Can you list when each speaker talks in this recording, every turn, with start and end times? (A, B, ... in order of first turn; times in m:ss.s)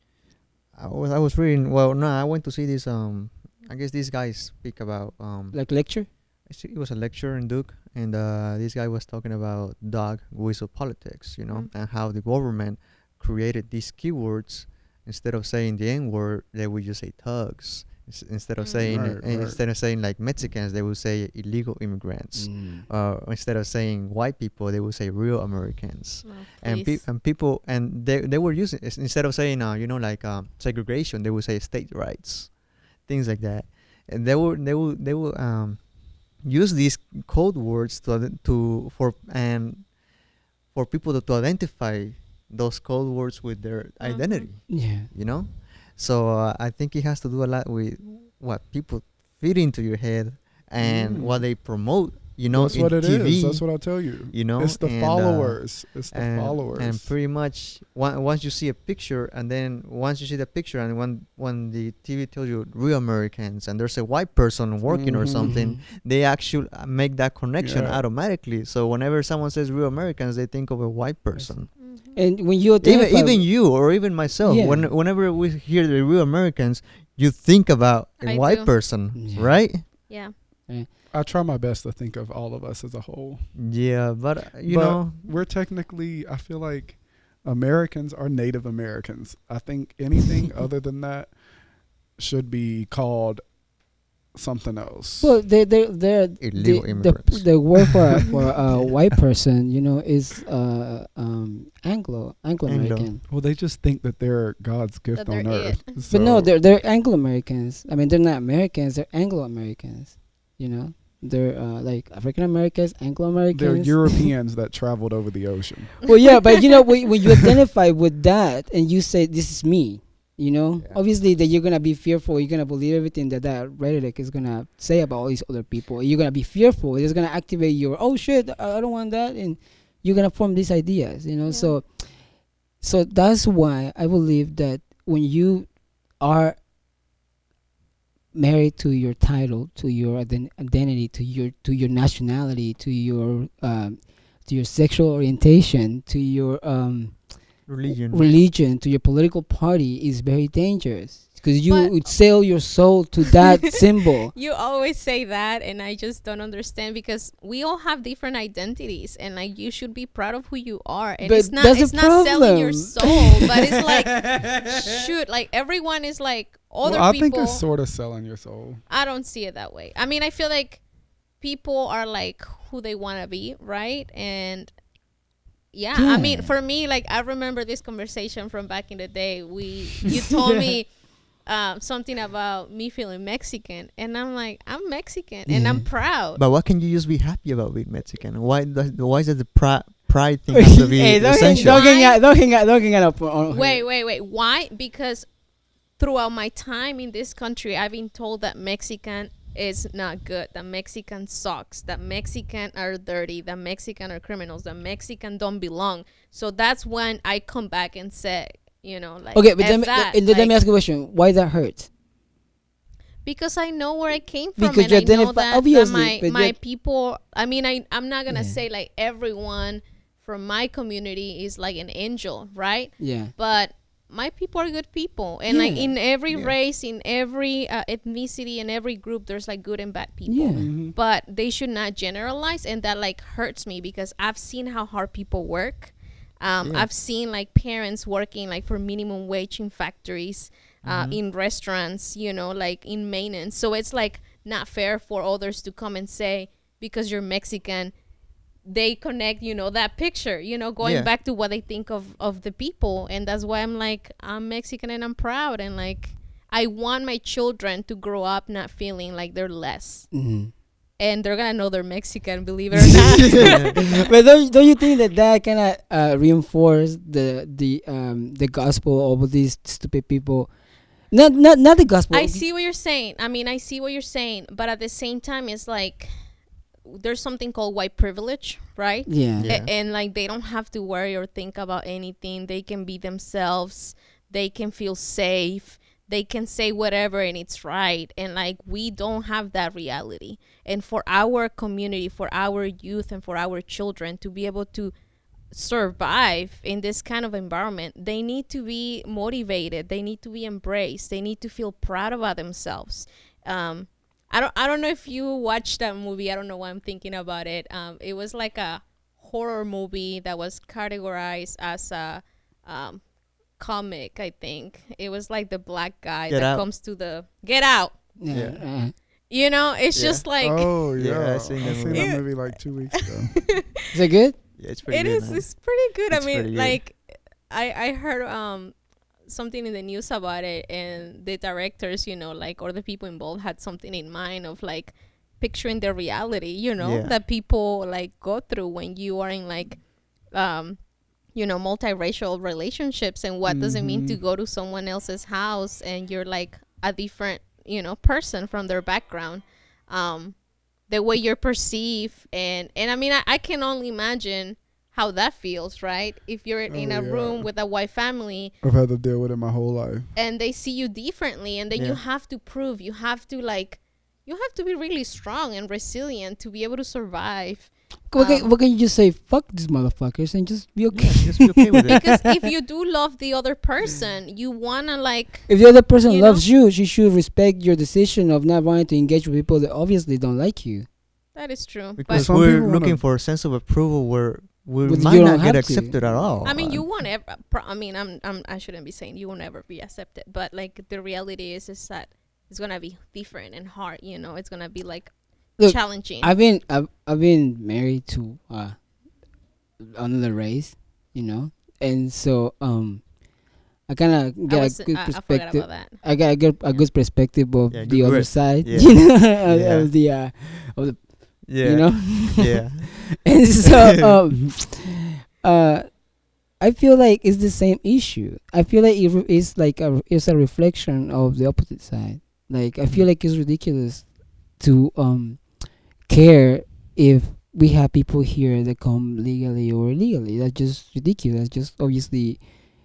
0:00.7-0:39.9 A
0:05.5-0:06.1 B
0:18.6-0:19.0 C
0:18.9-0:19.6 D
0:22.4-0:22.9 B
0:26.2-0:27.0 C
0:40.7-1:11.7 A
0:44.0-0:44.5 C
0:44.7-0:45.1 B
0:50.8-0:52.0 D
0:52.5-0:57.1 D
1:04.9-1:05.6 D
1:05.4-1:05.8 B
1:07.6-1:08.0 D
1:11.4-1:13.8 B
1:11.8-1:12.2 C
1:12.8-1:19.9 A
1:14.4-1:14.9 B
1:18.2-1:18.8 C
1:19.1-1:20.1 B
1:20.1-1:20.3 C
1:21.1-1:23.5 D
1:23.6-1:25.3 A
1:24.7-1:31.4 D
1:32.2-1:33.5 D
1:34.3-1:35.4 D
1:35.2-1:43.2 B
1:36.4-1:37.7 A
1:42.6-1:43.1 A
1:43.3-1:46.5 D
1:45.2-1:46.0 C
1:46.1-1:54.3 B
1:53.5-1:56.0 D
1:56.0-2:16.6 B
2:11.5-2:11.8 C
2:18.3-2:34.3 B
2:27.7-2:28.3 A
2:31.7-2:32.1 C
2:34.3-2:47.6 C
2:41.2-2:44.8 B
2:46.8-2:48.8 D
2:48.9-2:50.8 C
2:51.4-2:54.7 C
2:55.7-3:06.4 C
2:55.9-2:56.6 B
3:05.5-3:05.9 B
3:06.3-3:11.8 A
3:10.5-3:13.8 B
3:11.4-3:12.2 C
3:13.5-3:15.4 C
3:16.0-3:30.6 C
3:29.3-3:31.9 B
3:33.2-4:07.9 C
3:34.6-3:36.6 B
3:38.3-3:38.6 B
3:43.0-3:43.3 B
3:45.5-3:46.0 B
3:46.3-3:46.6 A
3:50.3-3:50.8 B
3:50.6-3:51.0 D
3:56.6-3:56.9 A
4:00.8-4:01.2 A
4:08.7-4:20.2 C
4:10.8-4:11.1 A
4:20.1-4:20.5 B
4:21.0-4:24.0 C
4:23.3-4:30.6 B
4:23.4-4:23.9 A
4:31.1-4:32.4 B
4:32.1-4:54.9 C
4:39.1-4:39.5 B
4:39.4-4:39.7 A
4:55.5-5:13.0 C
5:13.6-5:18.0 C
5:16.3-5:16.7 A
5:18.2-5:18.9 B
5:18.3-5:18.6 A
5:19.3-5:20.8 C
5:19.9-5:20.3 A
5:20.4-5:23.4 D
5:21.0-5:22.3 A
5:21.6-5:23.8 C
5:23.9-5:24.4 B
5:24.6-5:26.8 A
5:24.9-5:40.8 C
5:36.8-5:37.1 A
5:41.3-5:50.4 C
5:43.5-5:44.2 D
5:50.9-5:58.6 C
5:56.7-5:57.5 D
5:58.6-6:00.1 D
6:00.2-6:08.5 C
6:01.7-6:02.0 A
6:08.1-6:12.0 B
6:10.9-6:12.0 A
6:11.9-6:16.4 C
6:15.5-6:20.9 B
6:21.4-6:22.3 C
6:22.0-6:26.9 A
6:22.1-6:23.0 D
6:24.8-6:26.0 B
6:26.4-6:36.4 C
6:35.6-6:38.8 B
6:39.8-6:43.1 B
6:43.9-6:56.0 B
6:44.5-6:46.0 C
6:47.7-6:49.9 A
6:51.4-6:53.3 A
6:56.6-7:12.4 B